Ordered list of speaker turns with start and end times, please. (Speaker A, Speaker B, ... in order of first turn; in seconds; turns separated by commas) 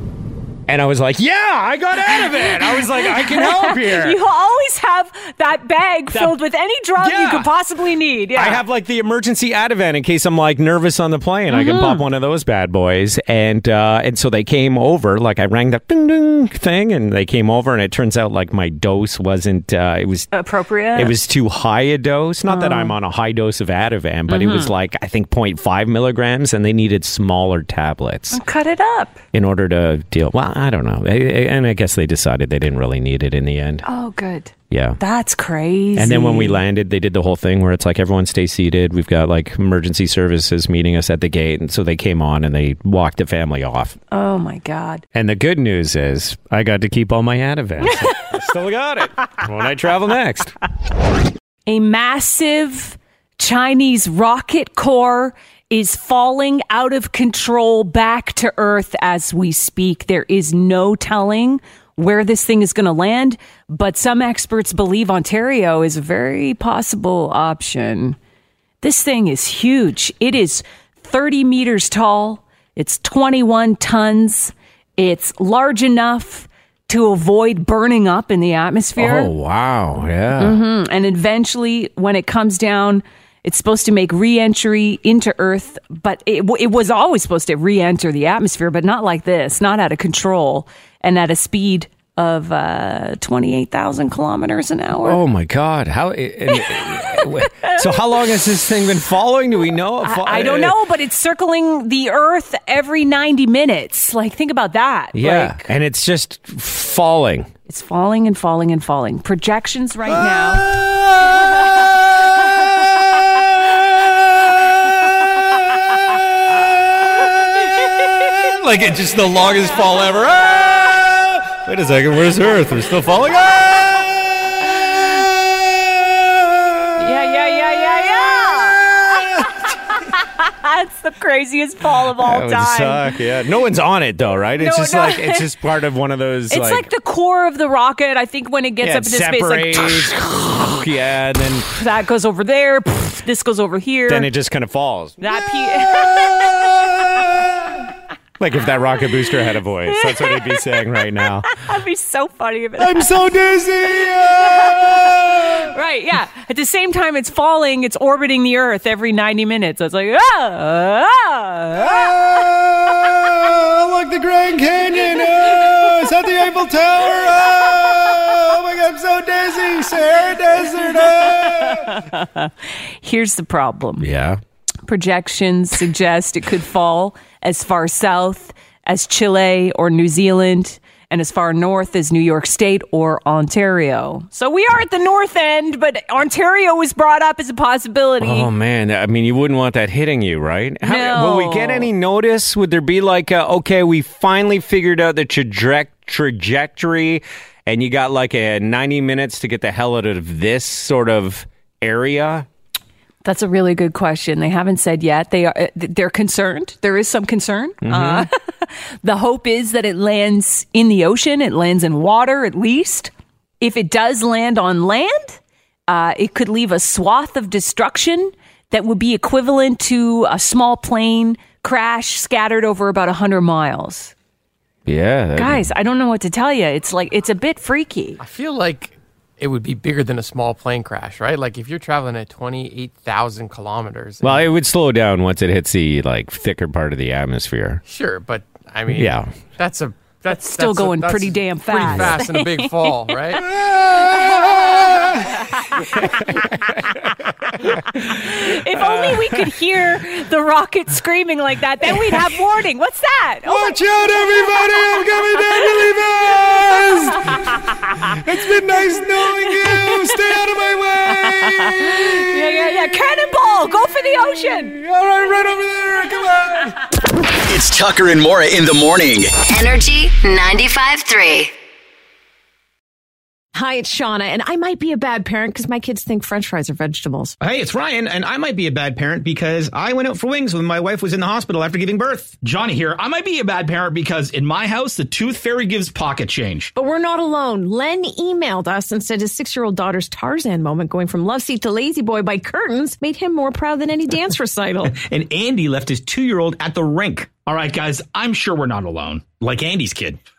Speaker A: 0.7-4.2, Speaker B: 2.1-8.6, Speaker A: 6.1-6.4, Speaker A: 7.0-7.5, Speaker A: 8.3-20.3, Speaker B: 11.5-12.0, Speaker B: 20.3-21.2, Speaker A: 20.9-28.4, Speaker B: 22.5-23.0, Speaker B: 24.3-24.7, Speaker B: 28.3-29.2, Speaker A: 29.3-33.9, Speaker B: 33.9-36.6, Speaker A: 34.7-35.0, Speaker A: 36.0-44.0, Speaker B: 44.1-45.0, Speaker A: 45.1-50.5, Speaker B: 51.7-68.2, Speaker B: 68.8-79.3, Speaker A: 79.0-80.6, Speaker B: 80.4-95.2, Speaker A: 95.0-100.8, Speaker B: 96.5-97.8, Speaker B: 100.0-105.7, Speaker A: 105.1-107.5, Speaker B: 107.7-110.7, Speaker A: 110.1-111.9, Speaker A: 118.2-124.2, Speaker A: 125.2-129.5, Speaker B: 127.0-129.2, Speaker B: 129.9-133.1, Speaker A: 132.0-136.9, Speaker B: 134.6-135.5, Speaker B: 136.5-140.1, Speaker A: 138.8-141.7, Speaker B: 141.8-144.3, Speaker A: 144.1-146.7, Speaker B: 145.2-146.7, Speaker A: 148.4-151.5, Speaker B: 149.9-153.3, Speaker A: 152.8-155.7, Speaker B: 154.0-162.5, Speaker A: 161.8-172.0, Speaker B: 165.6-165.8, Speaker B: 171.2-172.5, Speaker B: 173.0-174.1, Speaker A: 174.0-174.4, Speaker B: 174.9-188.5, Speaker A: 188.2-202.5, Speaker B: 190.8-191.9, Speaker B: 203.2-224.1, Speaker A: 207.8-208.3, Speaker A: 224.9-225.7, Speaker B: 225.3-228.2, Speaker C: 228.2-234.4, Speaker A: 234.2-237.8, Speaker C: 237.9-243.5, Speaker A: 238.9-239.3, Speaker B: 240.4-243.2, Speaker A: 243.4-249.5, Speaker B: 243.9-246.4, Speaker B: 248.0-257.5, Speaker A: 251.9-252.4, Speaker A: 253.5-262.1, Speaker B: 259.5-260.2, Speaker B: 261.1-264.8, Speaker A: 264.5-266.8, Speaker D: 267.4-269.6, Speaker E: 269.5-271.5, Speaker F: 273.6-277.4, Speaker G: 277.4-286.7, Speaker F: 286.8-294.9, Speaker G: 294.8-300.2